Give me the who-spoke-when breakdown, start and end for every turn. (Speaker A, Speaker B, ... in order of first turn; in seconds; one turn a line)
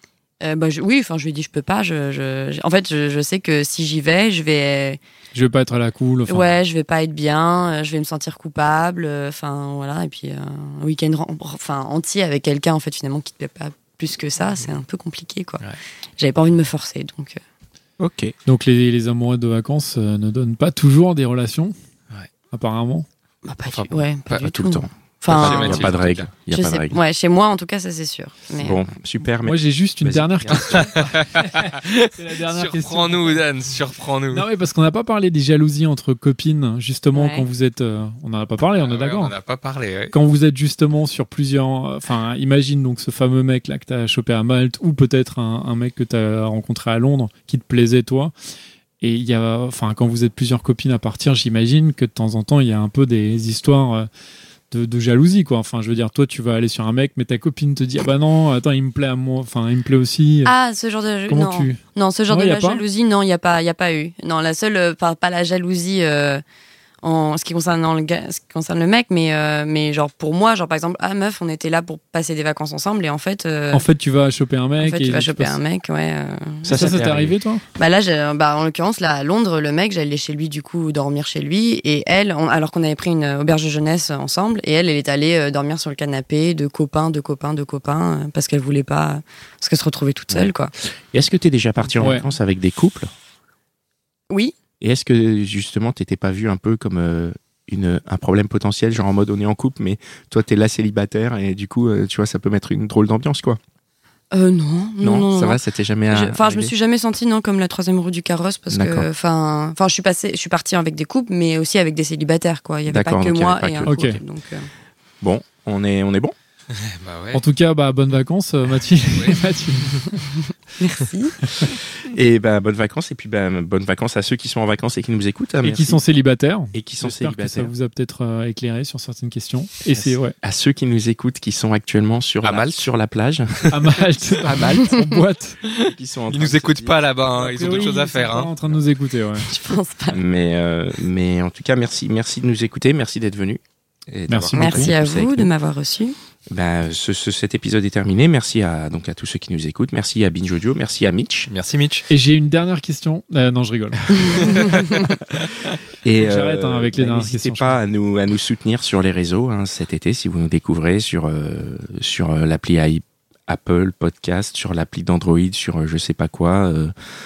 Speaker A: 0.4-5.0
Speaker B: 5.3-6.5
Speaker A: 6.3-15.6
Speaker A: 16.2-17.4
Speaker C: 18.0-18.3
Speaker B: 18.5-21.7
Speaker B: 22.5-23.1
Speaker A: 23.4-25.9
Speaker D: 23.7-24.5
Speaker C: 24.4-27.0
Speaker D: 25.3-26.3
Speaker A: 26.5-28.8
Speaker C: 28.6-31.1
Speaker B: 29.5-33.4
Speaker D: 30.6-34.5
Speaker B: 34.3-39.3
Speaker A: 37.1-37.5
Speaker D: 38.8-40.1
Speaker B: 40.1-48.3
Speaker B: 49.0-54.1
Speaker B: 54.7-60.5
Speaker A: 60.5-66.4
Speaker B: 61.3-62.8
Speaker A: 67.0-73.8
Speaker B: 73.7-75.6
Speaker A: 74.8-77.0
Speaker C: 76.6-77.3
Speaker B: 76.7-77.6
Speaker A: 77.8-90.7
Speaker C: 90.3-93.1
Speaker A: 94.3-94.5
Speaker C: 94.8-103.6
Speaker A: 104.3-105.6
Speaker C: 105.0-106.7
Speaker A: 106.1-114.7
Speaker C: 108.7-109.1
Speaker C: 112.9-114.2
Speaker B: 113.8-114.2
Speaker C: 115.2-116.3
Speaker D: 116.7-117.4
Speaker B: 117.3-120.2
Speaker A: 120.8-121.6
Speaker C: 122.0-126.0
Speaker B: 125.6-130.4
Speaker C: 126.7-127.8
Speaker C: 129.9-133.8
Speaker D: 132.4-132.8
Speaker B: 133.7-135.6
Speaker C: 134.3-135.0
Speaker C: 135.8-137.1
Speaker D: 135.8-138.5
Speaker B: 137.4-139.5
Speaker C: 137.6-137.9
Speaker A: 139.4-140.2
Speaker C: 140.1-145.5
Speaker B: 144.3-144.9
Speaker A: 144.5-146.2
Speaker C: 146.5-151.5
Speaker D: 151.5-152.1
Speaker B: 152.1-154.4
Speaker D: 154.4-154.8
Speaker C: 156.0-166.9
Speaker B: 156.2-157.8